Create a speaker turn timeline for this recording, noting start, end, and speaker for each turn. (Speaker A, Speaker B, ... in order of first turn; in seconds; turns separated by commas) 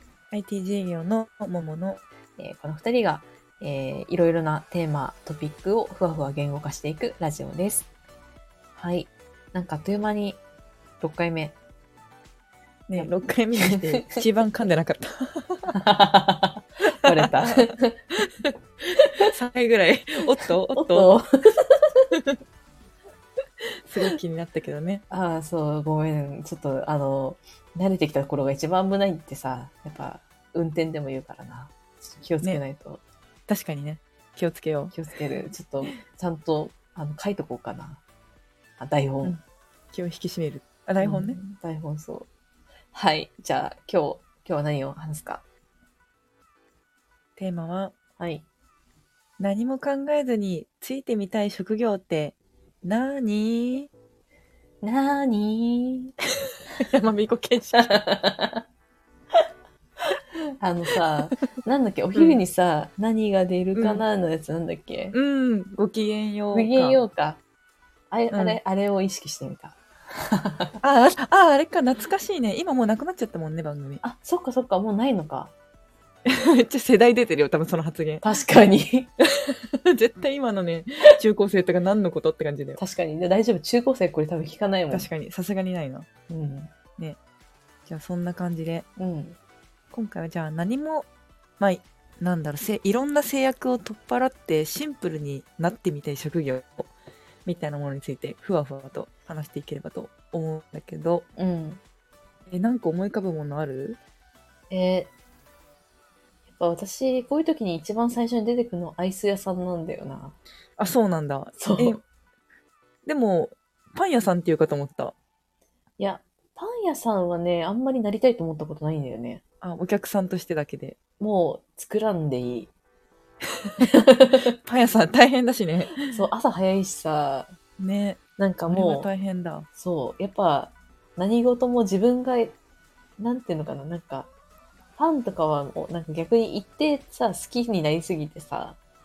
Speaker A: 0.3-2.0, Speaker B: 2.4-7.9, Speaker B: 8.8-10.4, Speaker B: 11.0-11.6, Speaker A: 12.9-15.7, Speaker B: 12.9-14.2, Speaker B: 15.7-18.0, Speaker A: 17.1-17.6, Speaker B: 19.0-19.3, Speaker A: 19.3-21.1, Speaker B: 20.7-22.1, Speaker A: 23.9-25.0, Speaker B: 25.1-33.0, Speaker A: 33.5-35.0, Speaker B: 34.9-38.0, Speaker B: 38.8-39.4, Speaker A: 39.9-41.4, Speaker B: 41.0-42.3, Speaker B: 42.9-45.4, Speaker A: 47.4-48.0, Speaker B: 48.2-48.4, Speaker A: 49.4-53.9, Speaker B: 54.8-56.1, Speaker A: 56.8-58.0, Speaker B: 57.7-58.6, Speaker B: 60.6-65.2, Speaker A: 62.2-62.4, Speaker A: 63.8-64.0, Speaker A: 65.1-67.0, Speaker B: 66.5-67.4, Speaker B: 68.1-70.8, Speaker A: 68.3-68.6, Speaker A: 70.8-74.0, Speaker B: 74.0-75.5, Speaker A: 76.3-78.2, Speaker B: 78.2-79.1, Speaker A: 79.2-82.8, Speaker B: 82.8-85.1, Speaker A: 84.9-86.1, Speaker B: 86.3-86.7, Speaker A: 87.9-88.9, Speaker B: 89.0-89.4, Speaker A: 89.9-91.1, Speaker A: 91.6-96.9, Speaker A: 97.5-101.3, Speaker B: 101.4-101.8, Speaker A: 102.5-104.0, Speaker B: 104.7-105.1, Speaker B: 106.5-110.4, Speaker A: 110.8-112.0, Speaker B: 111.6-112.0, Speaker A: 113.1-115.2, Speaker B: 116.0-119.4, Speaker A: 119.6-121.0, Speaker B: 121.2-122.7, Speaker B: 123.8-124.5, Speaker A: 124.6-126.0, Speaker B: 126.1-127.5, Speaker A: 127.8-129.7, Speaker B: 128.4-129.1, Speaker B: 129.8-132.6, Speaker B: 133.2-134.3, Speaker B: 135.0-138.8